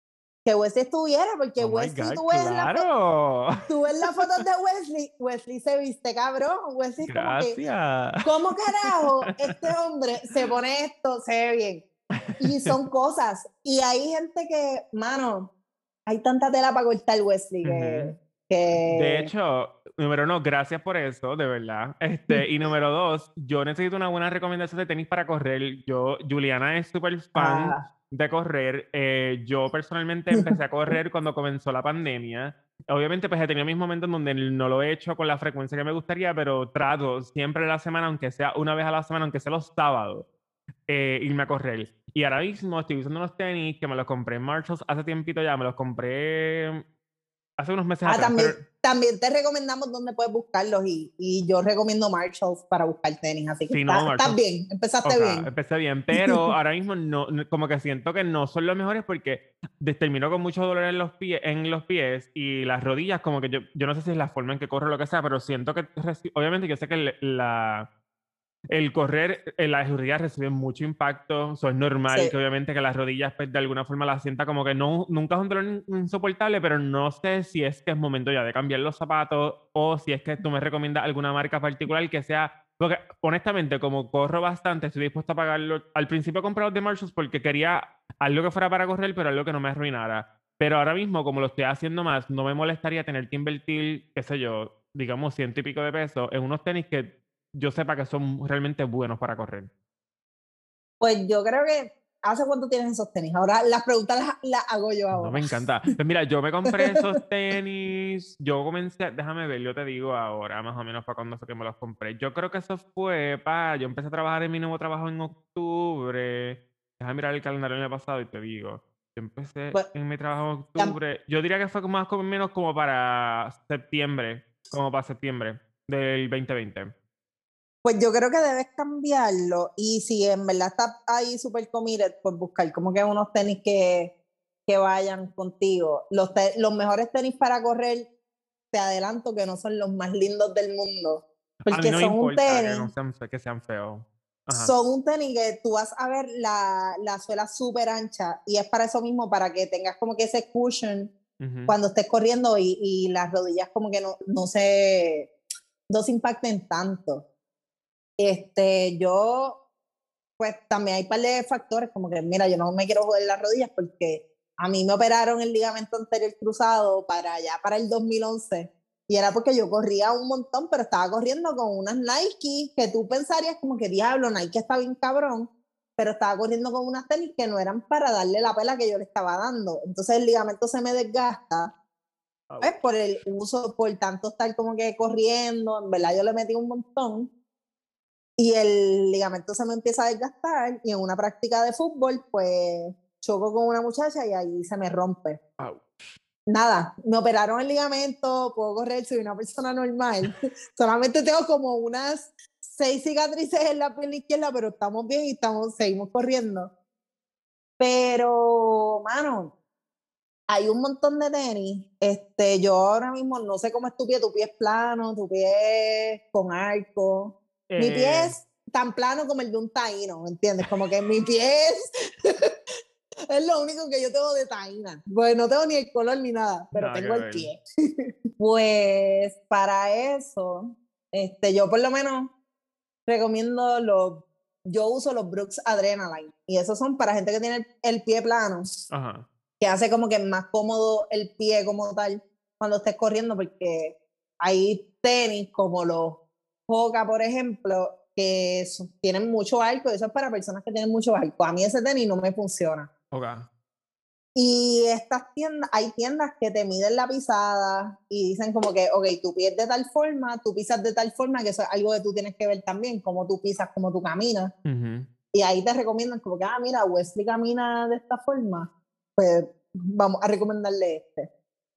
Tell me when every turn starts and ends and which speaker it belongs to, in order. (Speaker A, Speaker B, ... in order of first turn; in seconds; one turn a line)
Speaker A: 0.5-2.9
Speaker B: 1.6-4.4
Speaker A: 3.7-7.6
Speaker B: 7.0-9.7
Speaker A: 8.2-11.8
Speaker B: 12.2-12.8
Speaker A: 12.4-15.5
Speaker A: 16.1-19.3
Speaker B: 17.6-18.1
Speaker B: 18.8-40.3
Speaker A: 27.4-27.9
Speaker B: 40.9-46.8
Speaker B: 47.6-48.6
Speaker A: 48.1-55.5
Speaker B: 53.7-54.4
Speaker B: 55.0-67.9
Speaker A: 56.1-56.5
Speaker B: 68.7-99.7
Speaker A: 101.0-105.5
Speaker B: 105.1-126.9
Speaker A: 106.7-107.0
Speaker A: 127.8-134.1
Speaker A: 134.7-138.1
Speaker A: 138.7-142.9
Speaker B: 141.7-144.7
Speaker A: 144.5-151.1
Speaker B: 151.4-151.8
Speaker A: 151.7-155.3
Speaker A: 155.9-157.2
Speaker A: 158.2-159.6
Speaker A: 160.4-181.8
Speaker B: 182.5-182.9
Speaker A: 182.6-187.3
Speaker A: 188.4-195.4
Speaker B: 195.6-196.0
Speaker A: 196.5-206.7
Speaker A: 207.8-209.5
Speaker A: 210.5-222.5
Speaker B: 217.7-218.4
Speaker A: 223.3-227.6
Speaker B: 226.7-227.5
Speaker A: 228.4-232.3
Speaker A: 233.1-238.8
Speaker B: 238.9-239.3
Speaker A: 239.6-252.9
Speaker B: 253.1-253.5
Speaker A: 254.3-264.5
Speaker B: 264.7-265.1
Speaker A: 265.3-271.3